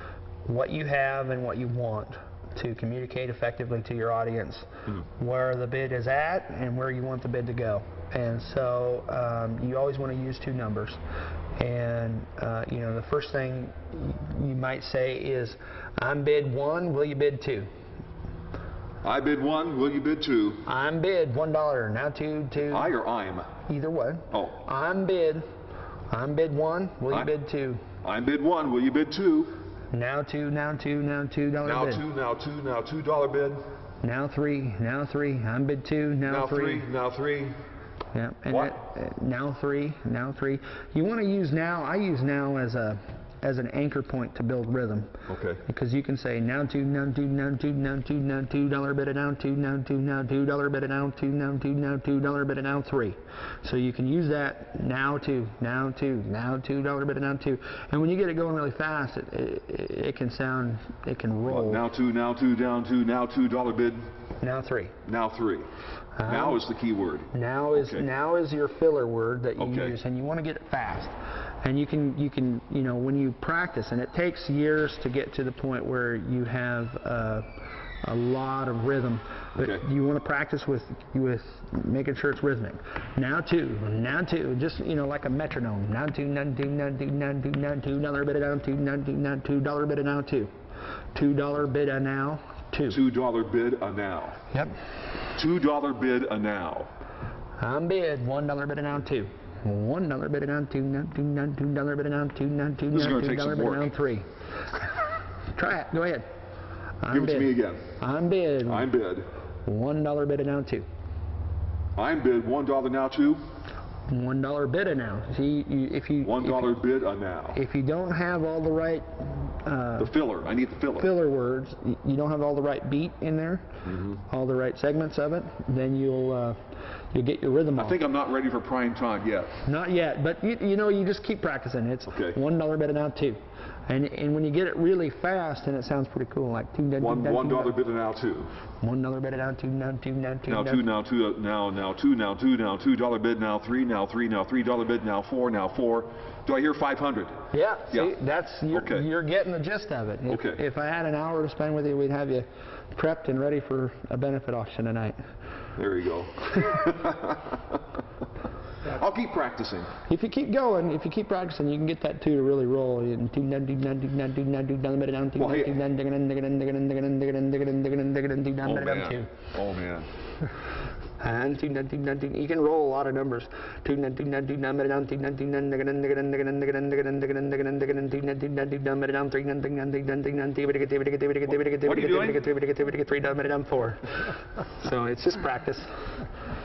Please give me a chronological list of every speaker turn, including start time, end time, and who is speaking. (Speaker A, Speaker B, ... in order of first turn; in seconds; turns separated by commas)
Speaker A: 0.5-11.0, Speaker A: 11.6-17.7, Speaker B: 19.0-20.7, Speaker A: 20.6-22.9, Speaker B: 22.7-23.6, Speaker A: 23.6-25.4, Speaker B: 24.3-24.6, Speaker A: 26.1-27.8, Speaker B: 28.0-29.6, Speaker A: 29.9-32.0, Speaker B: 31.6-33.6, Speaker A: 34.0-36.9, Speaker B: 36.2-37.6, Speaker A: 38.1-61.8, Speaker B: 38.5-38.7, Speaker B: 45.3-45.6, Speaker B: 61.5-64.1, Speaker A: 64.4-65.0, Speaker B: 65.0-65.7, Speaker A: 66.2-66.6, Speaker B: 66.3-68.1, Speaker A: 67.3-90.5, Speaker B: 69.6-70.0, Speaker B: 79.5-79.9, Speaker A: 91.2-93.0, Speaker B: 92.9-94.4, Speaker A: 94.5-94.8, Speaker B: 95.3-96.9, Speaker A: 97.6-104.3, Speaker B: 102.9-103.9, Speaker A: 105.5-106.3, Speaker A: 107.0-108.9, Speaker B: 107.1-108.0, Speaker B: 108.7-109.3, Speaker A: 109.7-110.9, Speaker B: 112.0-113.4, Speaker A: 114.1-116.8, Speaker B: 116.2-117.6, Speaker A: 117.5-120.1, Speaker B: 120.0-121.1, Speaker A: 121.0-128.0, Speaker B: 123.9-124.2, Speaker B: 127.8-129.6, Speaker A: 129.6-137.8, Speaker B: 132.1-132.4, Speaker B: 137.0-138.6, Speaker A: 138.8-140.8, Speaker B: 140.5-148.1, Speaker A: 147.5-155.2, Speaker B: 148.7-149.1, Speaker B: 150.3-150.6, Speaker B: 155.8-157.5, Speaker B: 158.8-160.0, Speaker A: 160.0-169.3, Speaker B: 165.4-165.8, Speaker B: 168.6-170.1, Speaker A: 171.2-186.0, Speaker B: 181.8-182.4